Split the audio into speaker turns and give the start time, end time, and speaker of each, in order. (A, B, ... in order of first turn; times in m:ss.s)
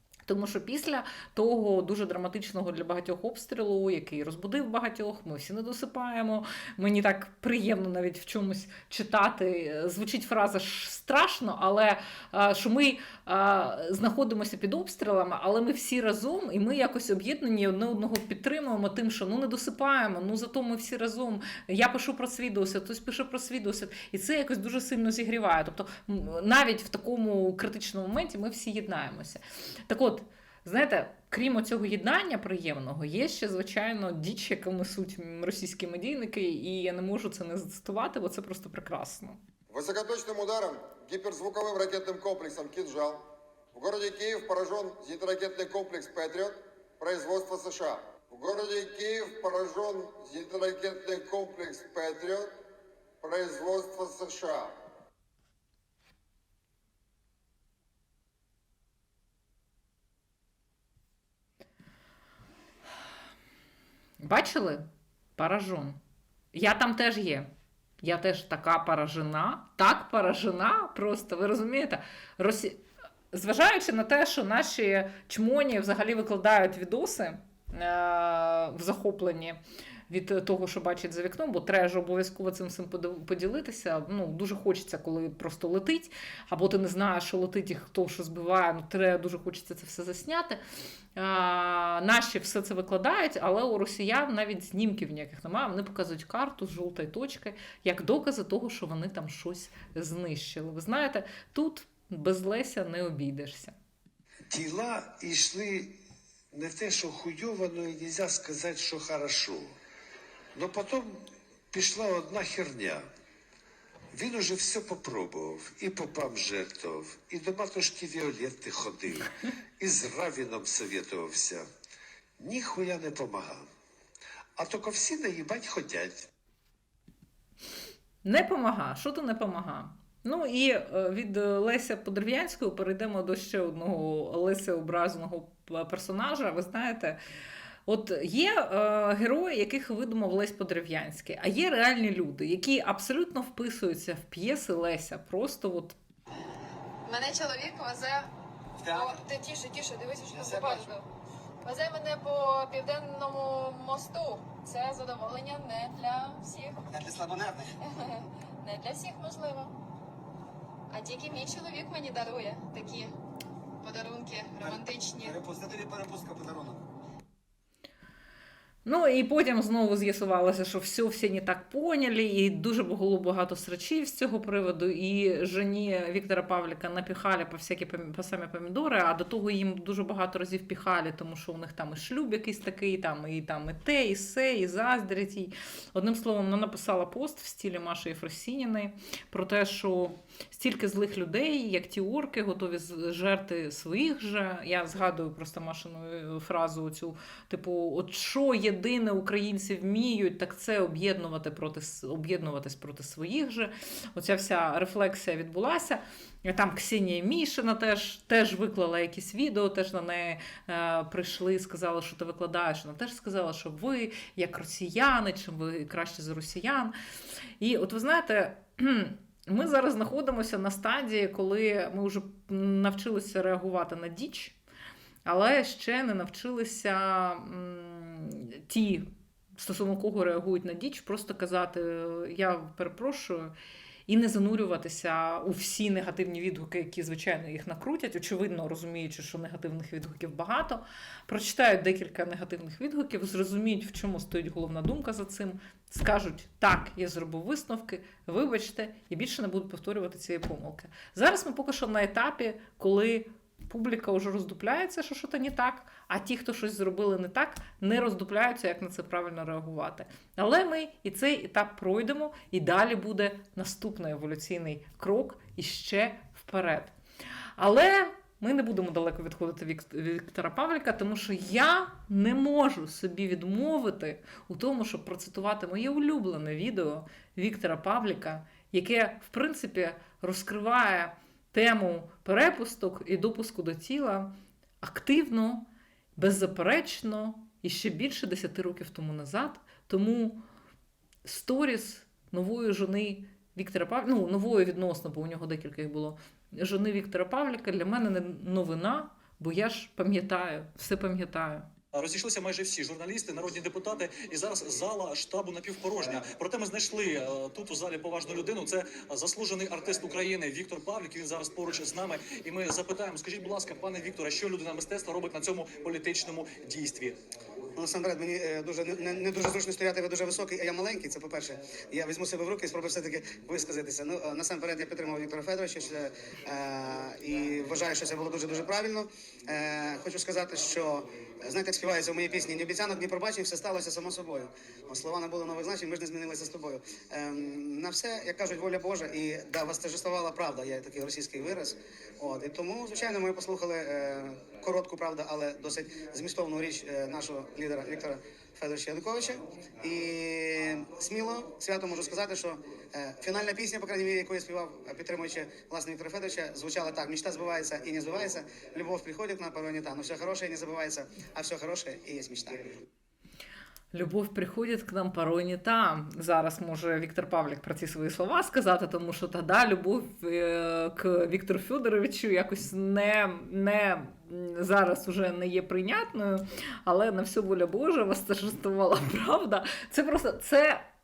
0:00.2-0:39.4 A
0:39.7-0:52.6 B
0:53.2-0:54.8 B
1:04.2-1:04.8 A
1:05.4-1:06.0 A
1:06.5-1:07.5 A
1:08.0-1:12.8 A
1:13.3-1:30.6 A
1:31.2-1:43.8 A
1:44.5-1:45.9 C
1:46.5-1:49.7 C
1:50.6-1:53.1 C
1:54.1-2:01.7 C
2:02.4-2:03.7 C
2:04.6-2:06.3 C
2:08.2-2:17.2 A
2:17.9-2:26.0 A
2:27.1-2:28.3 D
2:28.8-2:29.2 E
2:28.9-2:30.9 D
2:30.3-2:30.9 E
2:31.6-2:36.7 D
2:36.9-2:37.7 E
2:37.9-2:39.7 D
2:40.9-2:43.1 D
2:43.8-2:45.3 D
2:44.6-2:46.8 E
2:48.8-3:36.9 A
3:37.6-3:44.6 A
3:45.3-3:53.5 A
3:54.1-4:26.9 A
4:27.6-4:50.4 A
4:51.2-5:01.7 A
5:01.9-5:17.2 F
5:17.8-6:02.6 E
6:03.9-6:20.8 A